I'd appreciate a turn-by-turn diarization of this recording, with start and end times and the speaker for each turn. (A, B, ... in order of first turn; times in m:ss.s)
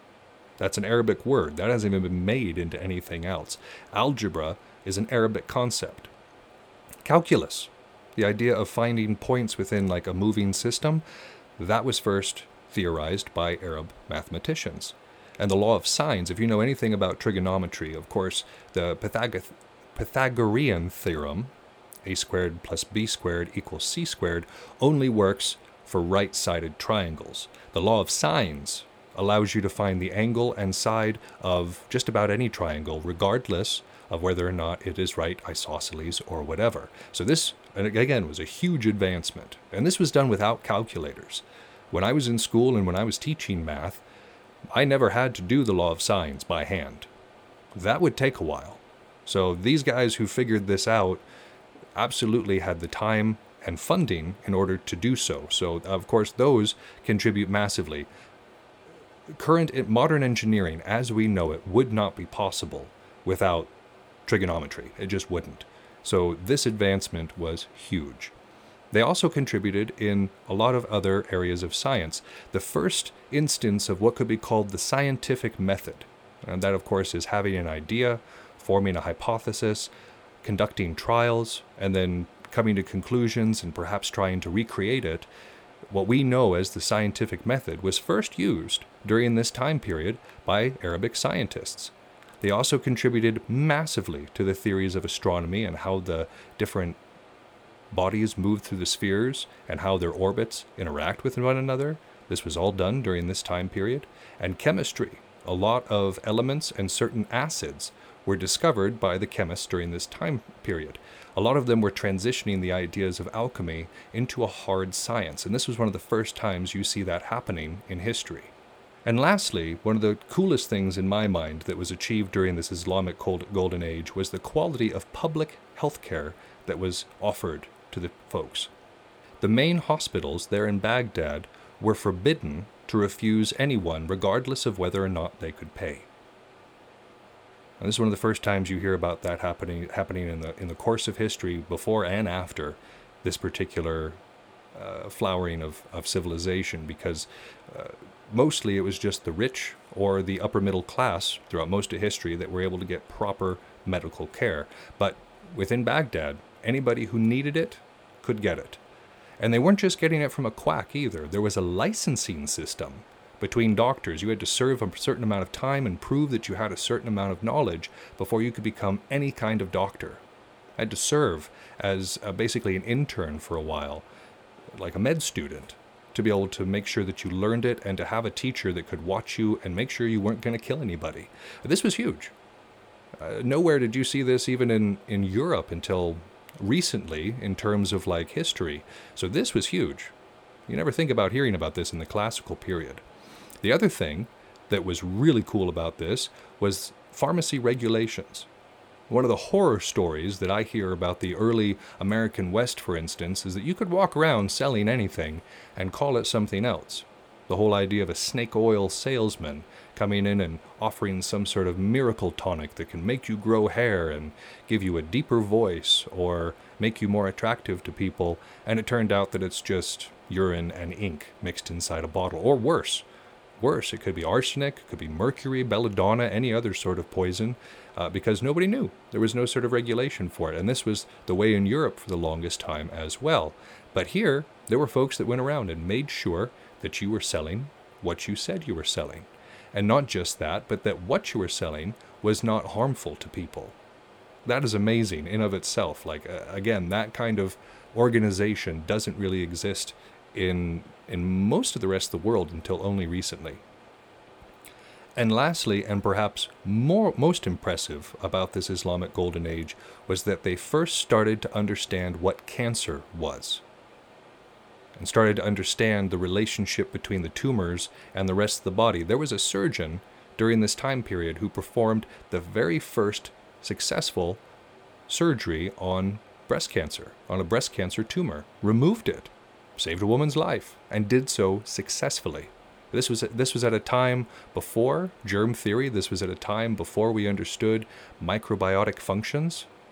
0:00.6-0:06.1 A
0:07.0-0:11.0 A
0:11.6-0:21.5 A
0:22.0-0:44.0 A
0:44.7-0:47.1 A
0:47.7-0:51.2 A
0:51.9-0:58.1 A
0:59.3-1:03.7 A
1:04.2-1:08.3 A
1:08.9-1:19.9 A
1:20.4-1:25.3 A
1:25.9-1:37.0 A
1:37.9-1:58.5 A
1:59.0-2:08.7 A
2:09.4-2:16.1 A
2:17.8-2:24.2 A
2:24.7-2:38.8 A
2:39.4-2:50.2 A
2:50.8-2:54.0 A
2:54.7-3:02.3 A
3:03.2-3:10.1 A
3:10.7-3:13.0 A
3:13.6-3:18.5 A
3:19.1-3:43.0 A
3:43.6-4:03.8 A
4:04.4-4:13.6 A
4:15.2-4:23.6 A
4:25.0-4:34.4 A
4:35.1-4:49.7 A